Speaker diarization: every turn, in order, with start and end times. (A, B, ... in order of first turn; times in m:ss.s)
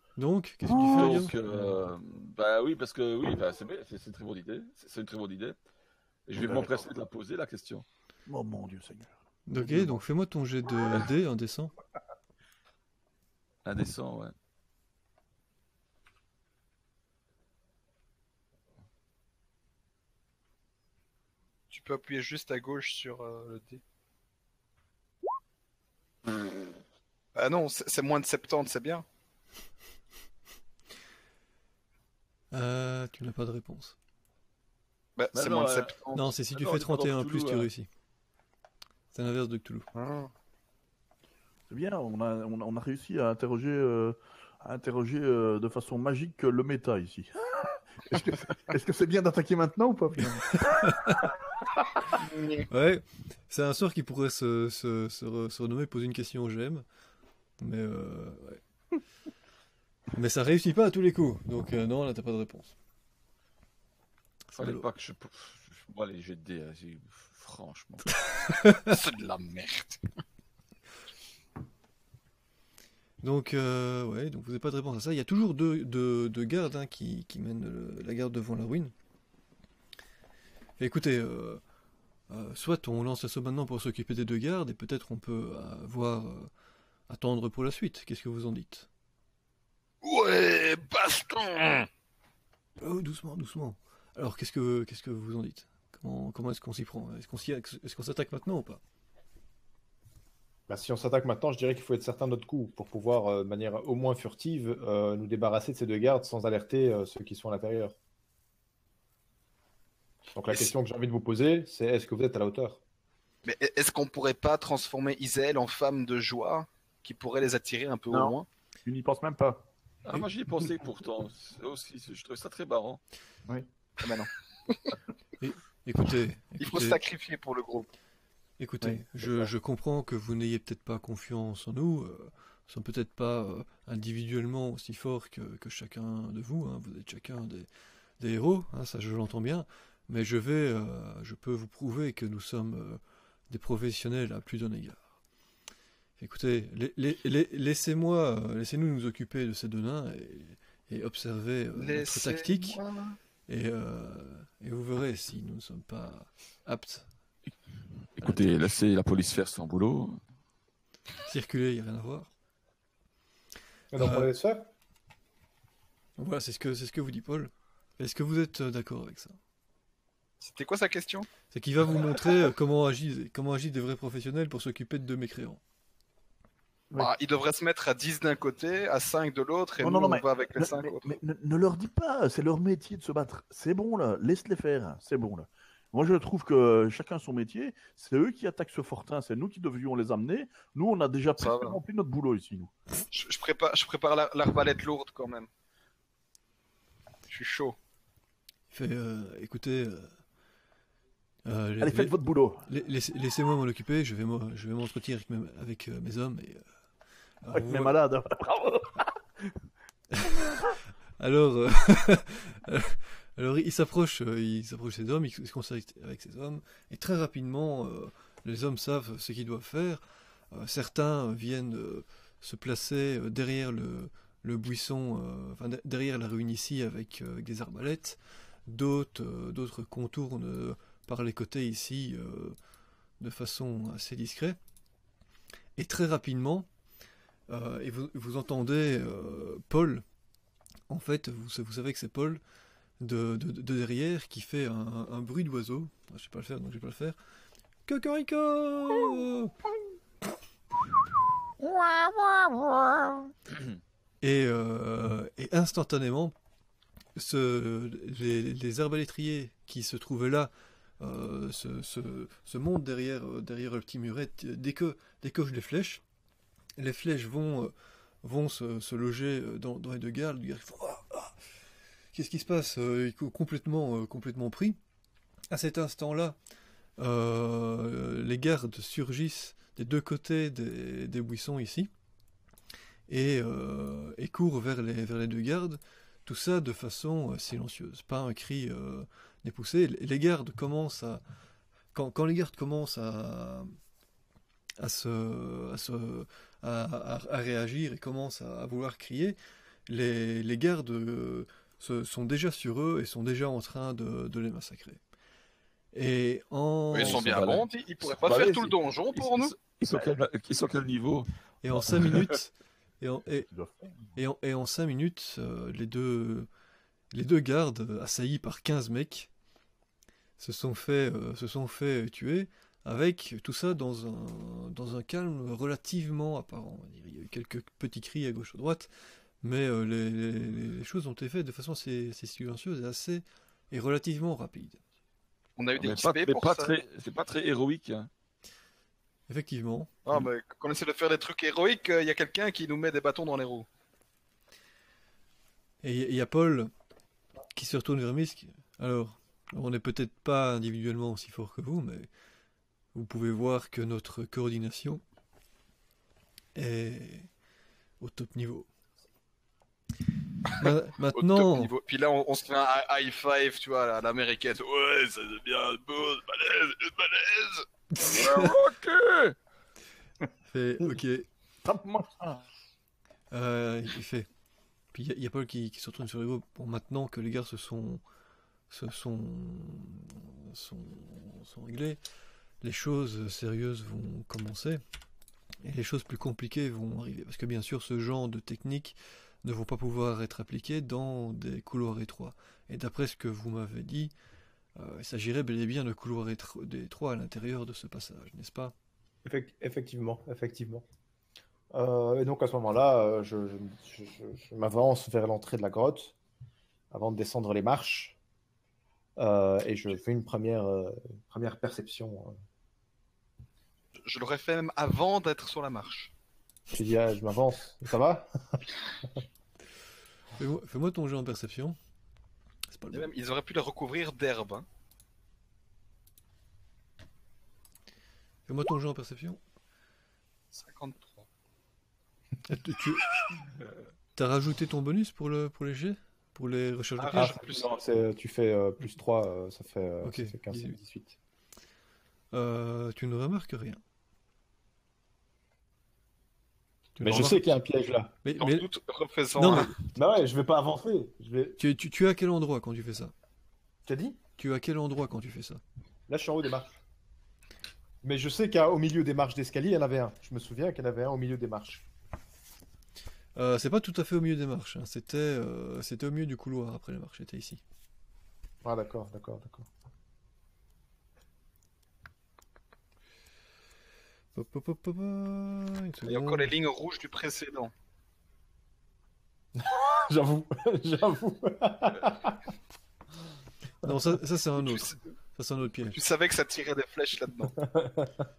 0:00.2-0:01.7 A
0:00.7-0:01.3 B
0:00.9-0:05.6 C
0:06.3-0:07.9 C
0:06.4-0:06.8 B
0:08.3-0:10.0 B
0:09.5-0:11.7 A
0:13.6-0:14.3 C
0:21.7-0:23.8 D
0:27.4-0:29.0 D
0:32.5-0:34.0 A
0:35.2-0:36.3 D
0:35.3-0:35.9 C
0:36.1-0:37.9 A
0:36.6-0:37.7 C
0:39.1-0:39.9 A
0:39.9-0:40.3 D
0:41.7-0:51.3 B
0:50.7-0:51.2 A
0:52.2-0:52.7 D
0:52.7-0:56.8 A
0:57.6-0:58.6 A
1:00.1-1:02.8 A
1:04.5-1:04.8 A
1:04.6-1:08.1 C
1:08.5-1:08.8 A
1:08.8-1:10.0 D
1:13.2-1:18.9 A
1:20.8-1:21.6 A
1:22.3-1:26.5 A
1:27.1-1:28.9 A
1:30.0-1:31.9 D
1:32.8-1:38.8 A
1:40.7-1:48.0 E
1:50.3-1:52.8 E
1:53.4-1:58.5 D
1:58.9-1:59.6 B
2:00.1-2:03.0 C
2:03.5-2:04.3 B
2:04.0-2:04.9 D
2:05.4-2:07.0 A
2:06.6-2:07.9 D
2:08.6-2:17.7 A
2:18.2-2:25.0 A
2:26.2-2:32.8 A
2:31.8-2:33.2 D
2:33.5-2:37.1 A
2:38.2-2:40.2 C
2:41.3-2:42.3 A
2:43.9-2:44.7 E
2:44.0-2:44.3 A
2:46.2-2:49.4 A
2:50.4-2:51.3 D
2:51.5-2:55.6 A
2:57.0-3:01.1 D
2:59.8-3:12.7 B
3:11.4-3:11.8 D
3:13.1-3:15.5 D
3:17.3-3:17.8 D
3:18.7-3:20.1 A
3:21.4-3:26.6 A
3:21.8-3:22.6 B
3:27.4-3:28.0 A
3:27.5-3:29.5 B
3:30.1-3:30.4 A
3:31.2-3:52.6 A
3:53.2-3:54.6 A
3:55.8-3:56.7 A
3:57.5-4:00.0 A
4:00.9-4:02.4 A
4:03.0-4:07.2 A
4:07.9-4:09.5 A
4:14.2-4:16.4 A
4:17.2-4:26.0 A
4:26.8-4:31.4 A
4:32.1-4:34.8 A
4:35.5-4:36.4 A
4:37.0-4:41.9 A
4:43.1-4:51.2 A
4:51.9-4:53.7 A
4:54.8-4:59.4 A
4:59.9-5:05.0 A
5:05.9-5:07.4 A
5:06.9-5:09.5 D
5:07.0-5:11.3 C
5:11.6-5:13.5 A
5:11.9-5:12.2 C
5:13.5-5:14.0 B
5:14.2-5:16.5 A
5:17.1-5:19.3 A
5:20.4-5:28.9 A
5:29.4-5:34.8 A
5:35.6-5:36.7 D
5:35.8-5:38.1 C
5:39.3-5:40.0 A
5:40.1-5:43.7 D
5:45.8-5:46.7 A
5:47.5-5:52.1 A
5:52.9-5:55.0 A
5:56.6-5:57.3 A
5:58.0-5:58.7 A
6:00.6-6:01.7 A
6:01.2-6:07.7 D
6:04.9-6:06.4 B
6:07.9-6:08.5 A
6:08.0-6:09.4 C
6:10.5-6:11.3 A
6:11.6-6:12.4 B
6:13.3-6:14.3 A
6:14.9-6:18.0 A
6:18.7-6:22.0 A
6:22.6-6:24.8 A
6:25.6-6:34.1 A
6:34.8-6:38.7 A
6:39.2-6:40.8 E
6:41.7-6:46.2 E
6:46.9-6:48.2 E
6:49.2-6:52.4 E
6:54.0-6:56.1 D
6:56.7-6:58.6 E
7:00.4-7:01.8 A
7:02.7-7:03.1 A
7:02.9-7:04.7 D
7:08.5-7:09.4 A
7:10.5-7:11.3 D
7:12.5-7:13.2 A
7:14.2-7:17.5 A
7:17.0-7:17.8 D
7:17.1-7:21.2 E
7:20.0-7:20.8 A
7:22.3-7:23.8 A
7:27.0-7:27.5 A
7:27.0-7:28.2 E
7:28.2-7:28.7 A
7:28.4-7:29.8 D
7:29.4-7:29.8 A
7:30.0-7:31.6 E
7:31.6-7:33.1 A
7:33.9-7:34.2 E
7:34.4-7:35.6 A
7:36.1-7:36.8 E
7:38.0-7:41.9 E
7:43.4-7:47.6 A
7:48.6-7:49.7 E
7:54.4-7:56.5 A
7:56.1-7:57.7 D
7:59.6-8:02.4 E
8:03.8-8:06.0 A
8:04.6-8:05.0 D
8:05.9-8:07.6 D
8:07.6-8:08.3 E